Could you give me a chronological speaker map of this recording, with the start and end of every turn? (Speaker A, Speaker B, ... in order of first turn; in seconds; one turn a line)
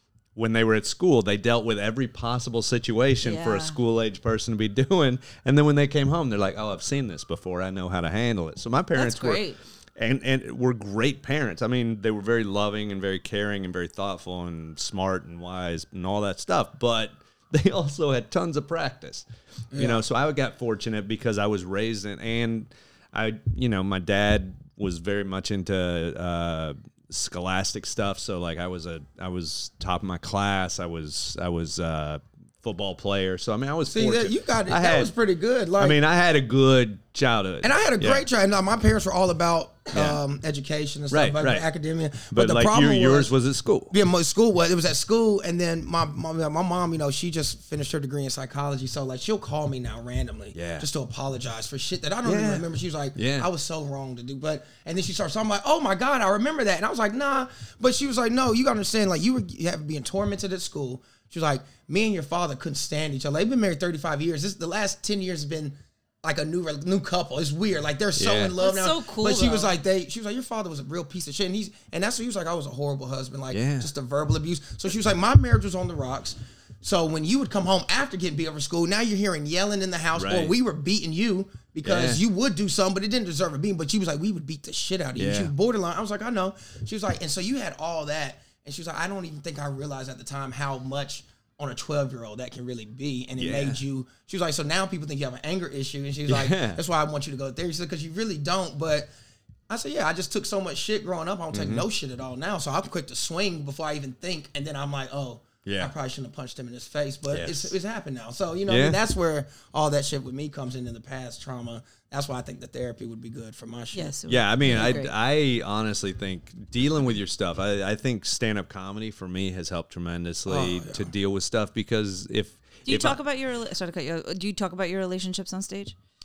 Speaker A: 0.3-9.4
Speaker B: 3.2-3.8
Speaker B: 8.9-9.6
Speaker A: 10.0-35.1
Speaker C: 19.7-20.0
Speaker C: 33.9-36.0
Speaker A: 35.8-38.2
Speaker C: 37.6-43.3
Speaker A: 39.9-40.2
Speaker A: 41.1-41.7
Speaker A: 42.3-43.9
Speaker C: 43.9-99.1
Speaker A: 50.5-50.9
Speaker A: 52.2-52.6
Speaker A: 53.1-53.5
Speaker A: 68.2-68.6
Speaker B: 68.6-69.7
Speaker A: 73.5-73.9
Speaker A: 80.1-80.5
Speaker A: 81.8-82.2
Speaker A: 85.2-85.5
Speaker A: 93.4-93.8
Speaker A: 96.3-96.8
Speaker C: 99.7-115.0
Speaker A: 101.5-101.8
Speaker A: 105.7-105.9
Speaker A: 107.3-107.7
Speaker A: 108.7-109.0
Speaker B: 113.9-115.1
Speaker A: 114.3-123.2
Speaker C: 120.5-121.1
Speaker B: 122.9-125.9